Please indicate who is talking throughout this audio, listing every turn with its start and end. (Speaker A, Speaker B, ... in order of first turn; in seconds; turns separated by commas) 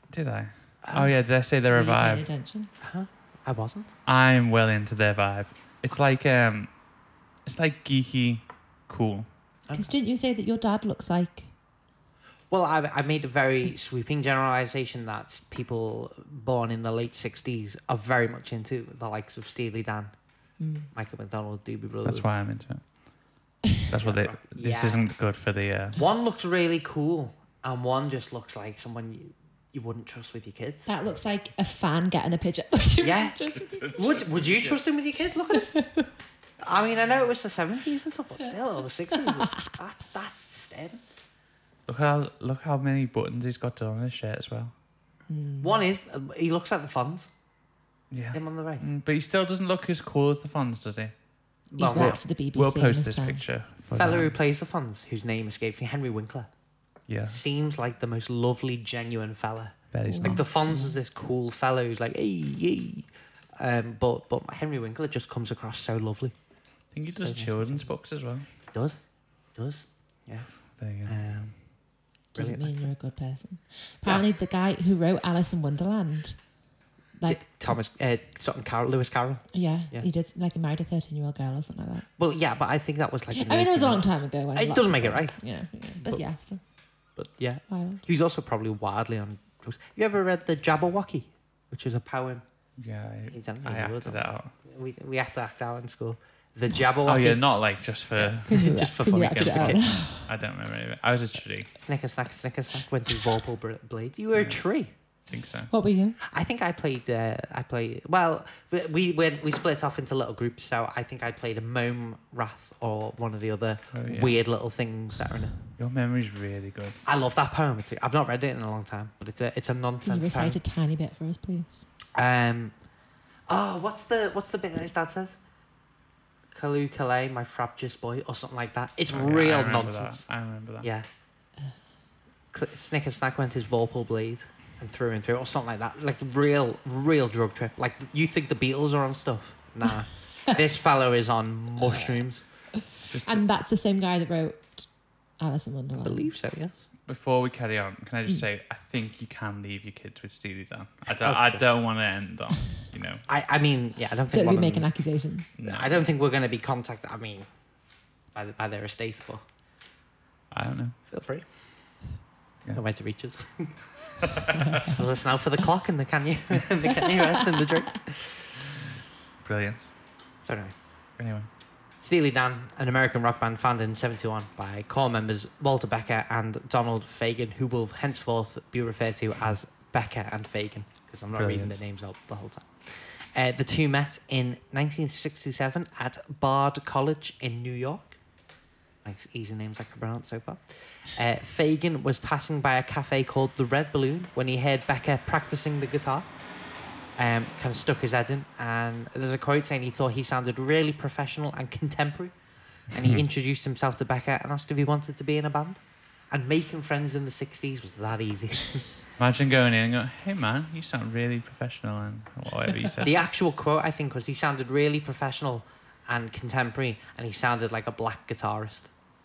Speaker A: 0.1-2.2, Speaker B: 0.8-1.1, Speaker C: 1.7-2.7, Speaker B: 2.8-3.9, Speaker A: 4.1-6.7, Speaker A: 7.5-9.3, Speaker B: 9.7-9.9, Speaker C: 9.7-11.5, Speaker B: 12.5-20.1, Speaker C: 20.6-20.9, Speaker B: 20.9-22.3, Speaker A: 22.0-23.0, Speaker A: 23.8-25.9, Speaker B: 24.0-25.1, Speaker B: 25.9-30.9, Speaker C: 30.9-34.2, Speaker B: 33.0-35.7, Speaker A: 33.7-34.0, Speaker C: 35.5-36.1, Speaker B: 36.6-41.0, Speaker C: 39.2-39.7, Speaker A: 41.9-44.7, Speaker C: 45.3-45.7, Speaker B: 45.6-47.3, Speaker A: 48.1-51.1, Speaker B: 48.3-48.9, Speaker B: 51.7-52.2, Speaker C: 51.8-53.5, Speaker A: 51.9-54.3, Speaker B: 53.9-56.5, Speaker A: 57.1-57.4, Speaker B: 57.3-66.3, Speaker A: 59.9-60.4, Speaker C: 60.1-61.0, Speaker A: 66.9-68.5, Speaker B: 67.2-67.9, Speaker B: 68.7-69.0, Speaker B: 69.5-70.5, Speaker A: 70.8-71.2, Speaker B: 71.0-71.7, Speaker C: 72.3-76.6, Speaker B: 72.3-72.7, Speaker C: 77.2-77.8, Speaker B: 77.2-80.1, Speaker C: 79.5-82.1, Speaker B: 82.2-85.4, Speaker C: 83.3-86.6, Speaker B: 86.0-86.2, Speaker B: 87.2-92.4, Speaker C: 87.7-88.0, Speaker A: 92.8-94.5, Speaker B: 93.3-97.4, Speaker A: 97.0-101.7, Speaker B: 98.2-99.8, Speaker C: 98.5-100.3, Speaker B: 101.8-104.9, Speaker A: 105.3-105.7, Speaker C: 105.7-106.2, Speaker B: 106.2-115.6, Speaker A: 113.9-114.4, Speaker A: 115.8-117.0, Speaker B: 117.0-120.6, Speaker C: 120.0-121.8, Speaker B: 122.2-122.7, Speaker B: 123.5-125.4, Speaker B: 126.5-130.2, Speaker A: 129.1-130.9, Speaker B: 130.8-131.1, Speaker B: 132.5-142.4, Speaker C: 141.9-142.2, Speaker A: 143.1-143.4, Speaker C: 143.2-144.9, Speaker C: 145.4-146.3, Speaker B: 146.0-146.8, Speaker A: 147.1-153.2, Speaker B: 151.1-151.7, Speaker B: 153.3-154.9, Speaker C: 154.3-155.5, Speaker A: 155.6-156.0, Speaker B: 155.6-157.5, Speaker B: 158.3-159.4, Speaker A: 160.5-161.0, Speaker B: 161.1-161.4, Speaker B: 162.7-163.9, Speaker C: 164.5-165.0, Speaker B: 164.8-168.6, Speaker A: 169.4-169.9, Speaker B: 170.4-170.7, Speaker A: 171.2-171.5, Speaker B: 172.0-188.2, Speaker A: 181.3-181.8, Speaker B: 189.0-196.3, Speaker B: 197.2-202.3, Speaker B: 202.9-208.9, Speaker A: 209.2-213.2, Speaker B: 213.0-218.9